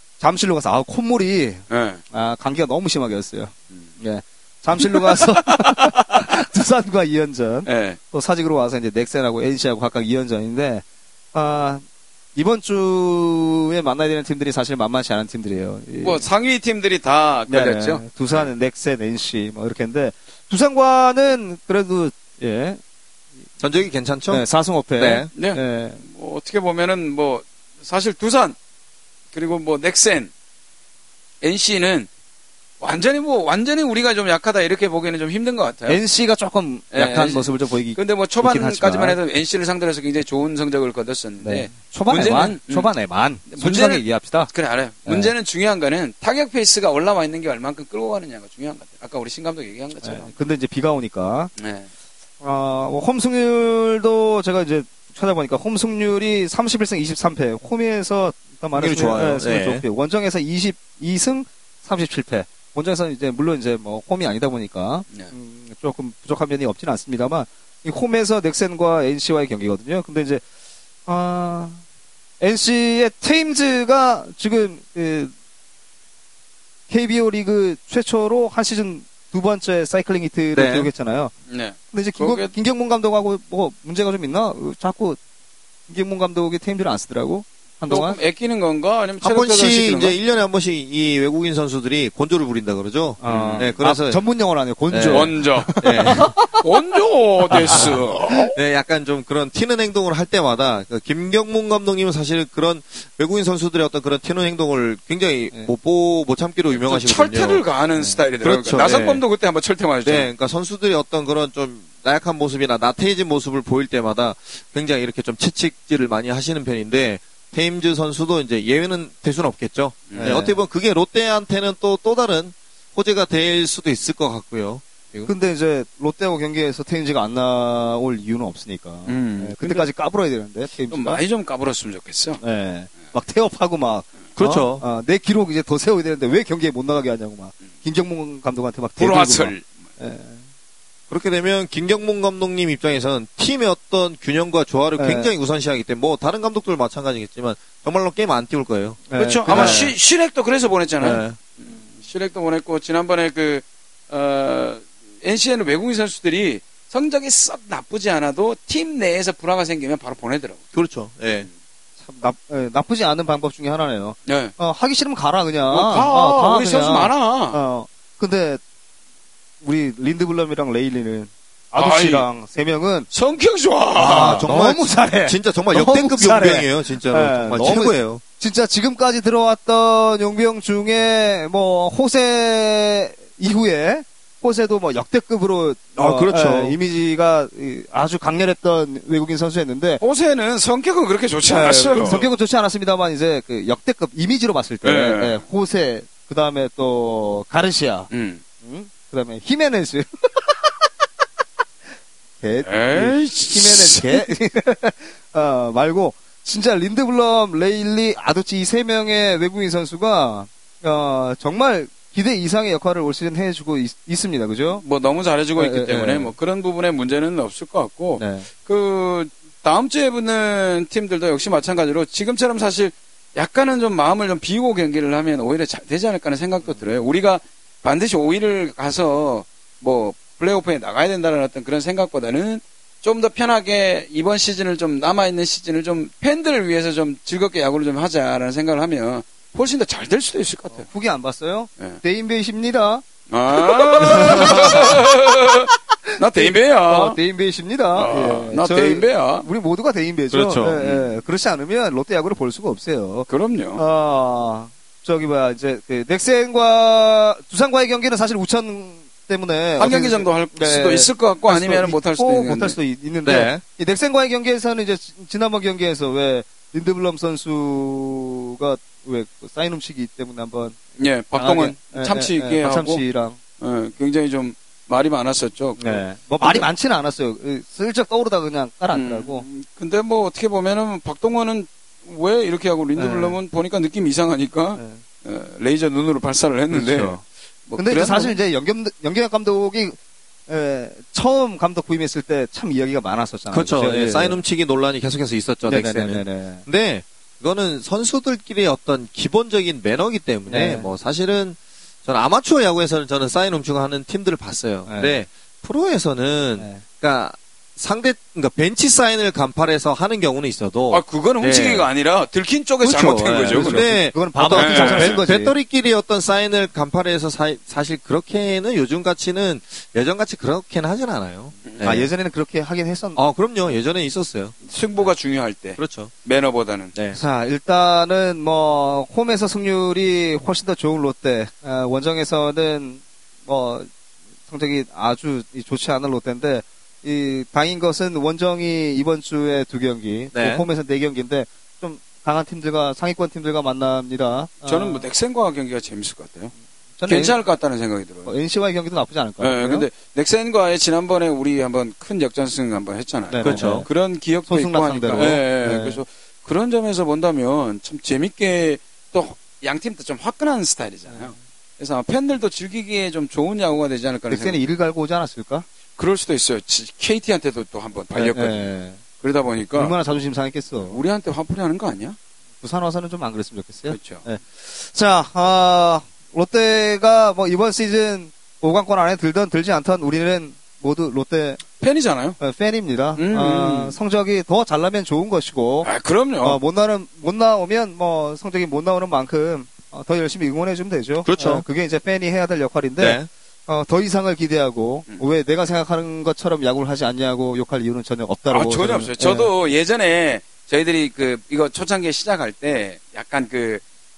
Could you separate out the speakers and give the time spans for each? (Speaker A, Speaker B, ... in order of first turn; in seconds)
Speaker A: 0.2-11.8, 12.4-16.3, 17.5-22.8, 24.3-26.0, 35.9-39.2, 41.4-44.5, 45.0-45.3, 50.0-51.5, 52.4-70.4, 71.1-71.8, 72.4-75.3, 76.9-81.3, 81.9-85.2, 85.9-88.2, 93.2-96.7, 97.5-98.5, 108.0-108.2, 120.2-120.6, 125.3-131.2, 132.4-140.4, 145.0-145.3, 149.1-149.9, 162.0-168.6, 169.6-173.1, 174.0-190.0, 191.5-198.1, 198.6-200.7, 202.4-214.8, 215.6-216.3, 218.2-218.5, 240.8-245.0, 246.1-273.4, 275.8-279.5, 283.0-283.4, 286.7-287.2, 287.8-294.4, 295.7-296.6, 300.5-300.9, 304.9-305.2, 306.6-306.8, 313.5-315.5, 321.8-323.2, 327.1-333.9, 334.5-345.1, 347.0-347.4, 348.2-349.9, 353.3-353.9, 354.4-356.0, 364.3-365.6, 368.1-369.0, 369.8-371.0, 372.6-381.6, 382.4-385.9, 386.4-399.5
Speaker B: 1.7-2.0, 4.8-6.3, 7.7-8.0, 16.0-18.5, 25.3-28.6, 29.3-30.3, 31.4-32.1, 32.8-36.0, 36.9-42.9, 43.5-50.3, 51.6-51.9, 81.5-82.5, 87.9-90.2, 93.2-93.7, 95.1-98.5, 106.7-110.3, 120.1-120.5, 129.1-129.9, 130.9-132.4, 139.0-139.7, 149.2-160.6, 164.3-164.5, 165.7-167.6, 171.8-172.3, 173.1-174.4, 190.0-192.2, 194.8-195.4, 198.1-198.4, 202.7-204.3, 214.8-240.9, 243.3-247.2, 247.9-249.5, 250.8-251.1, 253.3-253.8, 259.8-262.8, 271.0-273.0, 273.6-276.7, 278.9-288.4, 310.9-314.0, 314.5-315.2, 324.6-326.9, 344.6-346.5, 347.1-348.3, 349.4-364.6, 366.0-369.9, 370.8-372.2, 373.9-374.2, 381.8-382.4, 383.2-384.0, 385.8-386.6, 398.5-403.8
Speaker C: 23.6-24.4, 25.0-25.3, 58.8-59.8, 80.5-80.9, 89.2-94.2, 94.9-96.3, 97.7-97.9, 98.5-107.6, 108.4-109.2, 110.0-125.3, 134.4-134.8, 141.1-149.9, 151.0-151.4, 160.7-161.5, 174.0-178.2, 186.0-186.8, 250.3-250.8, 263.2-263.6, 293.5-311.9, 312.8-322.1, 323.2-324.6, 325.8-326.1, 326.9-327.2, 340.3-340.6, 353.4-353.9, 391.2-391.6, 393.0-393.3